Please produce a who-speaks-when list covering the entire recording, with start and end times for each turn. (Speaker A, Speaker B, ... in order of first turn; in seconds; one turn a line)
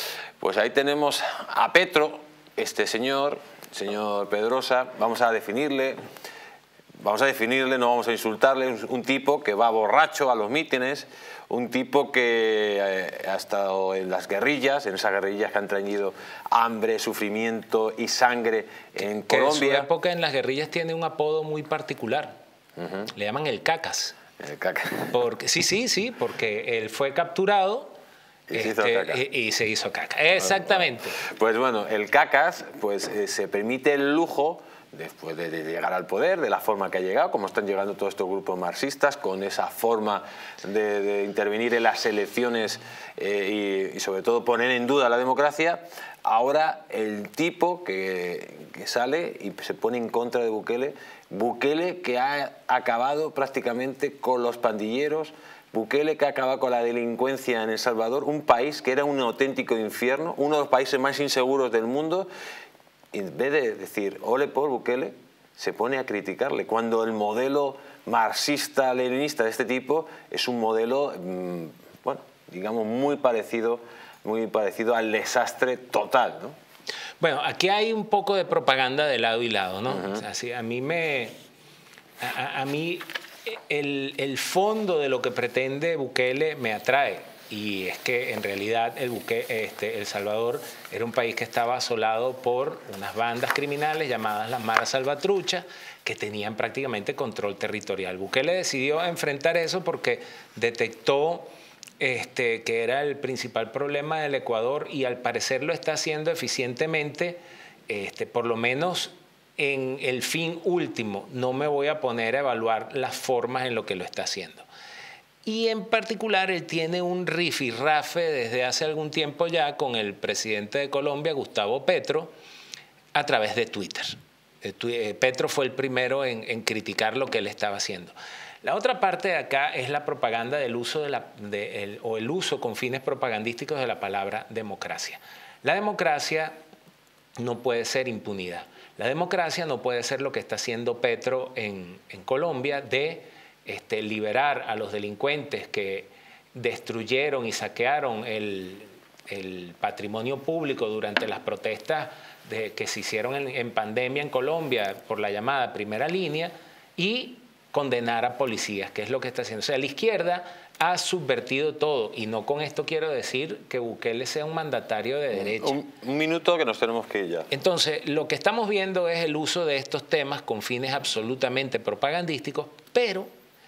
Speaker A: 0.4-6.0
Speaker A: 7.0-19.9
Speaker B: 19.3-22.4
Speaker A: 22.8-23.1
Speaker B: 23.1-24.2
Speaker A: 24.4-25.2
Speaker B: 25.1-27.9
Speaker A: 28.5-29.2
Speaker B: 28.5-31.2
Speaker A: 31.2-62.3
Speaker A: 63.1-76.6
Speaker B: 77.2-81.3
Speaker B: 82.2-101.5
Speaker B: 102.0-114.7
Speaker B: 115.5-122.3
Speaker B: 123.1-136.5
Speaker B: 137.4-165.8
Speaker A: 165.3-167.5
Speaker B: 167.5-173.3